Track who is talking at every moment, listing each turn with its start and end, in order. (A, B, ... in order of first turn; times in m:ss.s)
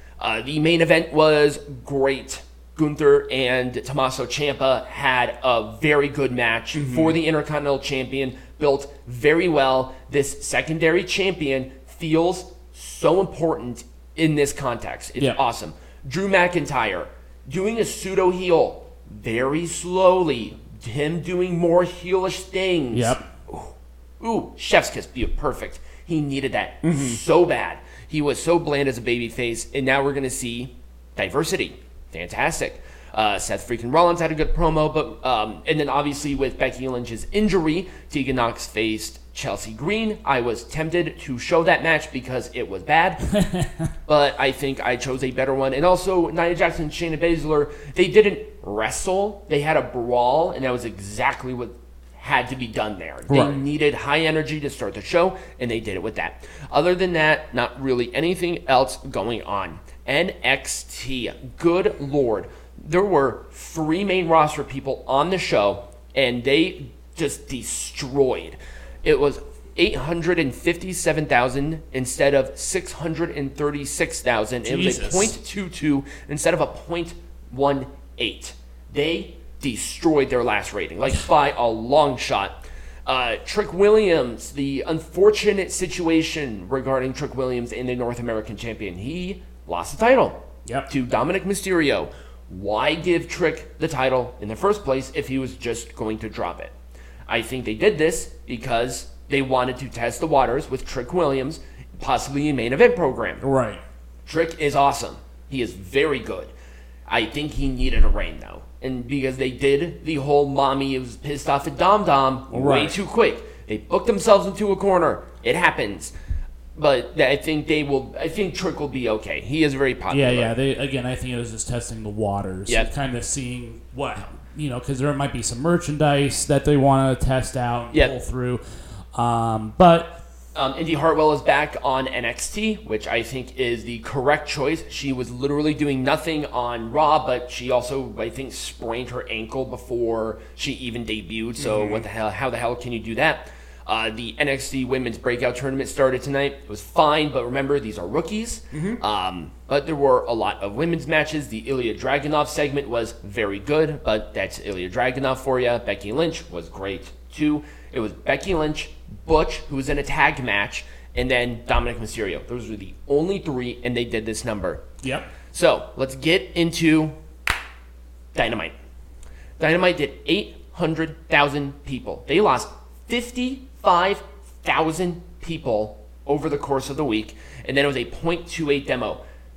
0:00.2-0:43.3 A
0:06.7-0:07.2 B
0:22.9-0:23.3 B
0:26.8-0:27.2 B
0:43.3-0:43.9 B
0:44.1-1:36.7 A
0:53.3-0:53.6 B
1:14.6-1:15.4 B
1:37.3-1:43.4 A
1:43.4-1:43.8 B
1:44.2-1:46.5 A
1:47.1-1:56.1 A
1:52.5-1:53.0 B
1:56.7-2:00.5 A
2:00.1-2:08.6 B
2:09.1-2:10.2 B
2:10.5-2:44.8 A
2:21.6-2:22.0 B
2:28.7-2:29.0 B
2:45.0-2:45.3 B
2:45.5-2:47.1 A
2:48.3-2:48.7 A
2:49.6-2:59.2 A